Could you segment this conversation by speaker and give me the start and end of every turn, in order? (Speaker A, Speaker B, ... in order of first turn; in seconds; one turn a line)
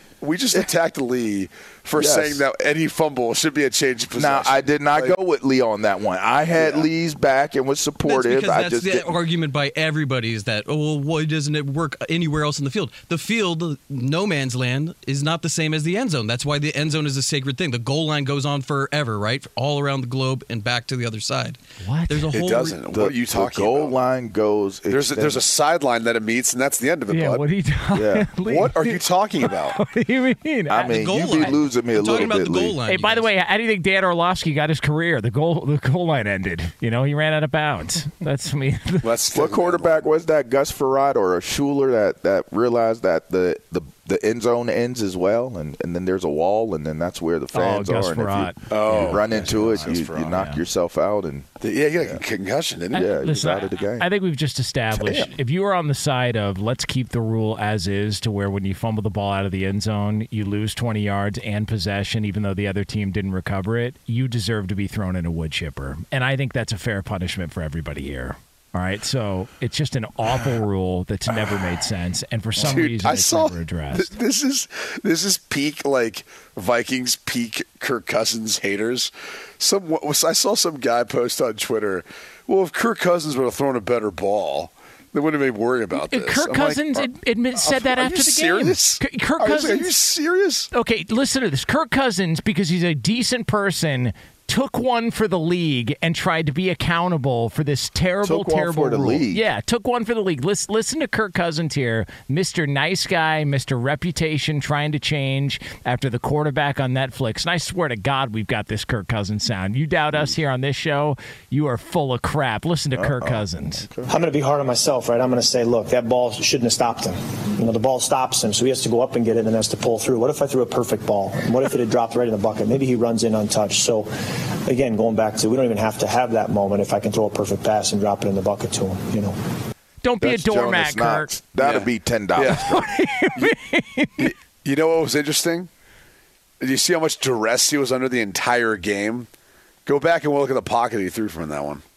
Speaker A: 0.2-5.2
Speaker B: 1.9-2.4
Speaker B: 4.1-9.1
Speaker A: 6.5-6.9
Speaker C: 8.0-22.8
Speaker D: 21.8-22.2
Speaker A: 22.3-24.0
Speaker B: 22.9-25.4
Speaker A: 24.9-27.4
Speaker D: 27.1-31.5
Speaker B: 27.9-28.4
Speaker A: 28.5-29.8
Speaker B: 30.7-32.8
Speaker C: 30.8-33.3
Speaker D: 32.9-39.1
Speaker A: 39.0-40.1
Speaker B: 39.3-51.5
Speaker D: 47.5-49.2
Speaker A: 48.7-50.4
Speaker D: 50.2-50.6
Speaker A: 51.6-53.0
Speaker B: 52.9-54.1
Speaker D: 52.9-74.1
Speaker B: 54.9-55.3
Speaker A: 71.3-71.7
Speaker A: 72.6-90.7
Speaker D: 85.9-89.9
Speaker D: 90.7-113.8
Speaker B: 98.2-99.4
Speaker B: 113.0-114.1
Speaker E: 114.1-124.1
Speaker E: 124.7-129.3
Speaker D: 130.0-131.3
Speaker B: 130.2-132.9
Speaker A: 131.6-132.8
Speaker D: 132.5-134.3
Speaker A: 134.6-135.7
Speaker A: 136.6-139.3
Speaker A: 139.9-141.8